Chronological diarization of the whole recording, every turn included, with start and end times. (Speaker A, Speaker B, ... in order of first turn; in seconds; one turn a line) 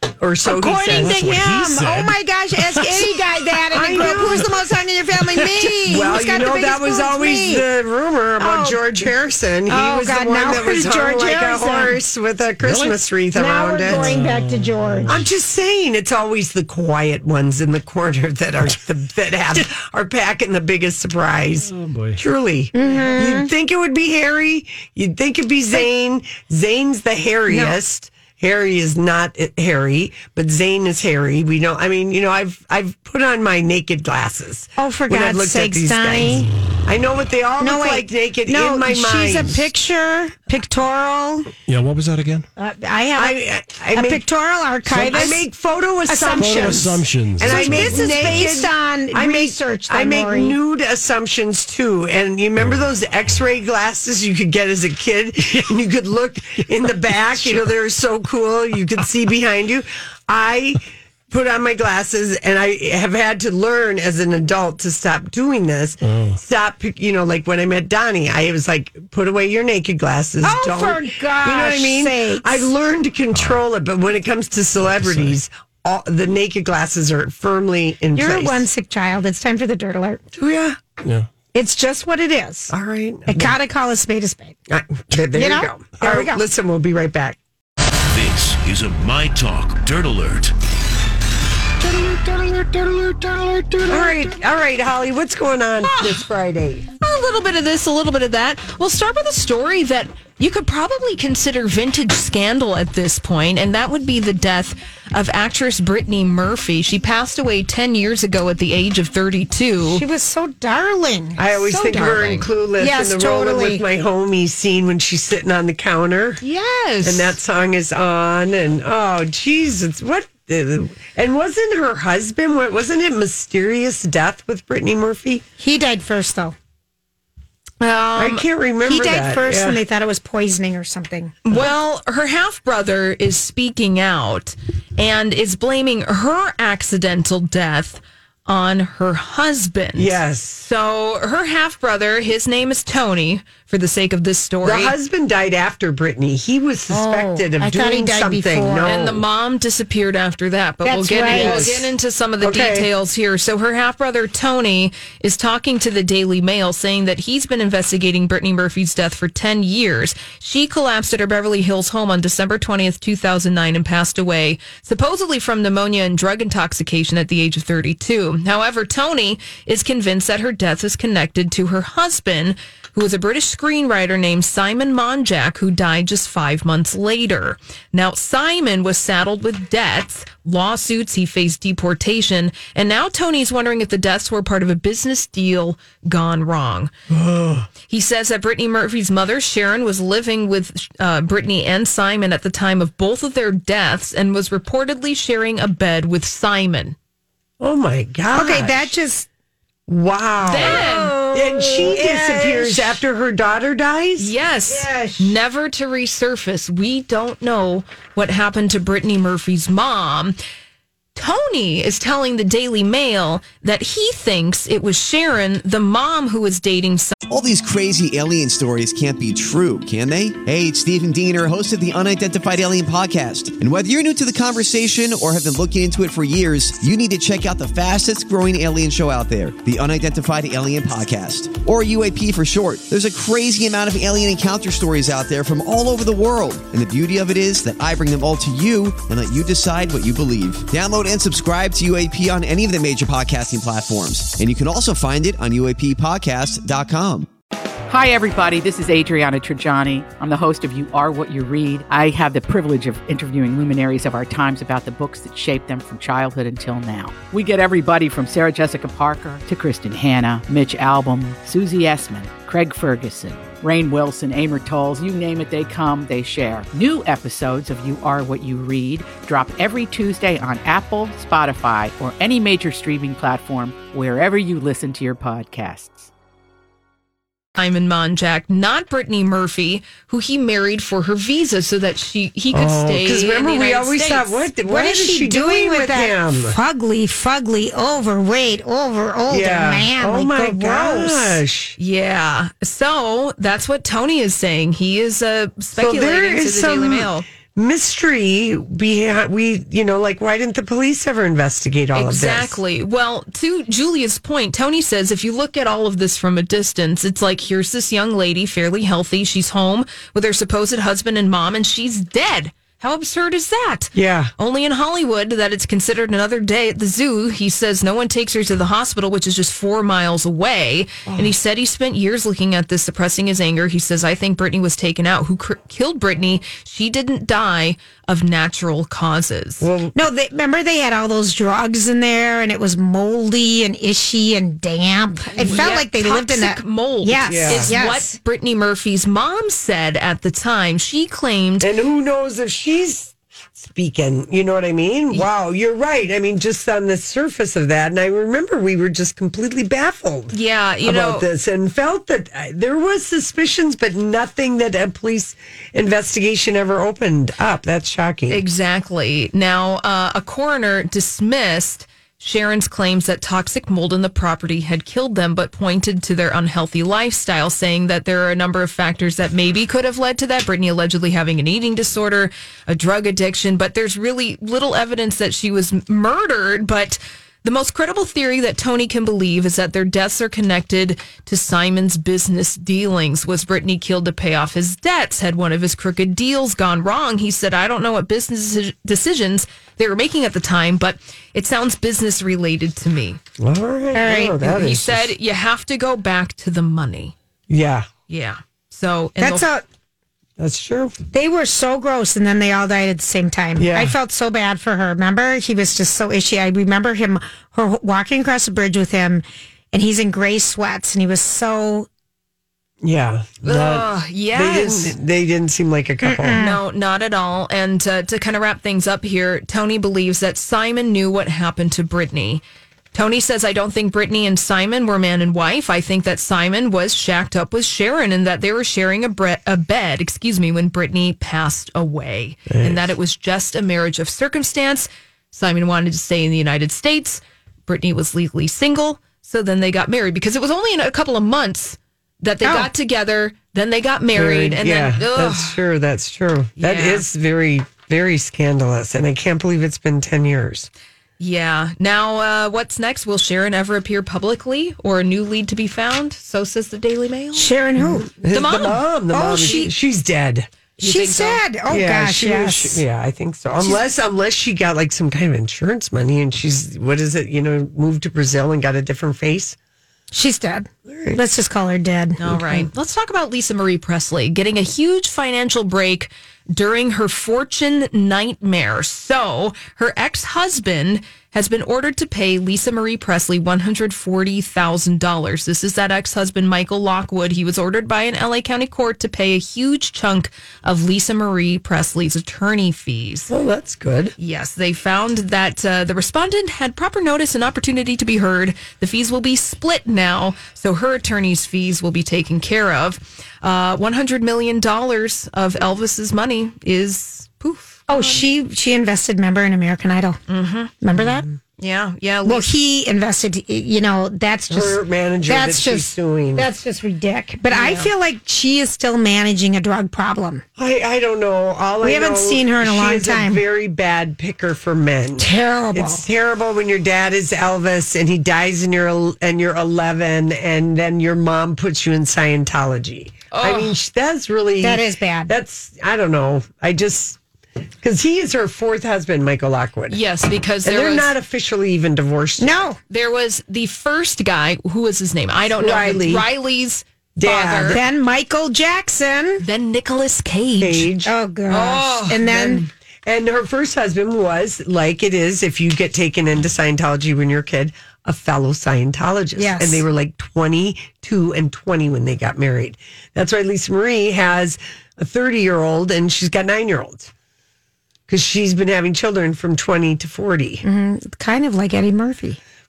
Speaker A: 0.2-1.2
Speaker B: 0.4-7.6
Speaker C: 0.7-3.1
Speaker A: 3.7-4.5
Speaker A: 5.6-14.2
Speaker B: 8.4-9.0
Speaker B: 9.7-11.9
Speaker C: 12.6-13.0
Speaker B: 13.3-15.2
Speaker C: 13.8-15.2
Speaker A: 15.1-39.7
Speaker C: 21.6-22.2
Speaker B: 22.7-23.5
Speaker B: 27.5-27.8
Speaker B: 34.8-36.5
Speaker B: 37.6-41.5
Speaker C: 41.7-42.5
Speaker B: 42.6-43.4
Speaker A: 43.1-44.2
Speaker B: 43.9-45.5
Speaker A: 44.9-78.7
Speaker B: 46.1-50.5
Speaker C: 46.4-48.6
Speaker C: 66.0-66.4
Speaker B: 70.4-72.7
Speaker C: 73.3-73.6
Speaker C: 74.8-75.3
Speaker B: 78.1-80.2
Speaker A: 80.3-80.8
Speaker B: 81.5-82.7
Speaker A: 82.7-83.6
Speaker B: 83.3-84.6
Speaker A: 84.7-87.4
Speaker B: 85.3-86.4
Speaker D: 88.1-90.5
Speaker A: 93.8-96.8
Speaker E: 95.8-96.2
Speaker E: 97.0-110.0
Speaker B: 109.8-113.8
Speaker A: 111.3-116.4
Speaker E: 111.9-112.5
Speaker E: 116.4-117.3
Speaker A: 117.0-125.4
Speaker B: 125.6-126.5
Speaker B: 127.8-131.4
Speaker A: 128.1-129.8
Speaker E: 131.4-144.9
Speaker A: 139.9-140.7
Speaker A: 144.6-149.2
Speaker B: 146.9-148.9
Speaker E: 148.8-186.9
Speaker B: 150.8-151.8
Speaker A: 151.2-151.9
Speaker A: 152.4-152.9
Speaker A: 187.1-187.7
Speaker E: 187.8-196.9
Speaker A: 197.6-198.9
Speaker B: 198.3-199.3
Speaker A: 199.9-204.3
Speaker E: 200.4-201.2
Speaker B: 200.5-203.0
Speaker E: 204.2-210.4
Speaker B: 204.7-205.4
Speaker E: 211.1-217.1
Speaker F: 217.3-247.3
Speaker G: 247.9-276.1
Speaker E: 277.6-284.5
Speaker A: 282.5-286.6
Speaker B: 284.6-291.4
Speaker A: 289.3-291.8
Speaker E: 291.8-297.2
Speaker A: 295.8-302.6
Speaker E: 301.9-329.7
Speaker A: 313.9-314.3
Speaker A: 321.1-321.3
Speaker A: 329.6-329.9
Speaker B: 329.9-338.2
Speaker E: 335.4-341.7
Speaker A: 335.5-335.7
Speaker A: 337.2-337.7
Speaker A: 341.6-358.4
Speaker E: 350.3-351.3
Speaker E: 358.3-393.2
Speaker A: 393.4-395.1
Speaker B: 393.9-394.4
Speaker E: 394.3-397.1
Speaker A: 397.5-397.9
Speaker E: 398.1-399.4
Speaker B: 399.2-399.6
Speaker A: 400.4-400.9
Speaker B: 401.1-411.9
Speaker A: 403.6-403.9
Speaker A: 412.8-416.4
Speaker E: 413.4-414.9
Speaker B: 416.0-416.6
Speaker E: 416.4-445.6
Speaker A: 432.5-432.9
Speaker B: 442.4-442.7
Speaker A: 444.1-450.7
Speaker E: 446.6-447.0
Speaker E: 451.2-457.5
Speaker B: 457.3-458.1
Speaker A: 457.8-460.5
Speaker E: 458.3-459.6
Speaker B: 459.1-459.7
Speaker E: 460.8-461.4
Speaker B: 460.8-462.8
Speaker A: 461.7-469.6
Speaker B: 470.1-472.7
Speaker A: 470.9-471.2
Speaker E: 472.2-493.3
Speaker A: 493.3-494.1
Speaker E: 494.2-507.9
Speaker B: 507.9-510.2
Speaker E: 510.3-510.7
Speaker B: 510.8-511.3
Speaker A: 510.9-511.3
Speaker E: 511.6-512.5
Speaker B: 512.2-520.4
Speaker A: 514.5-516.5
Speaker A: 517.5-517.8
Speaker A: 520.6-537.2
Speaker B: 521.8-523.4
Speaker B: 525.2-526.0
Speaker E: 533.3-533.8
Speaker B: 534.6-535.3
Speaker A: 537.8-540.0
Speaker E: 539.9-541.1
Speaker A: 540.6-542.6
Speaker B: 542.4-542.8
Speaker E: 542.9-547.8
Speaker A: 545.5-546.3
Speaker A: 547.1-547.8
Speaker B: 547.6-549.4
Speaker E: 549.4-550.9
Speaker A: 550.6-551.1
Speaker B: 551.0-552.6
Speaker E: 551.5-552.6
Speaker A: 552.2-567.1
Speaker B: 559.4-559.8
Speaker A: 568.1-570.6
Speaker B: 570.6-572.4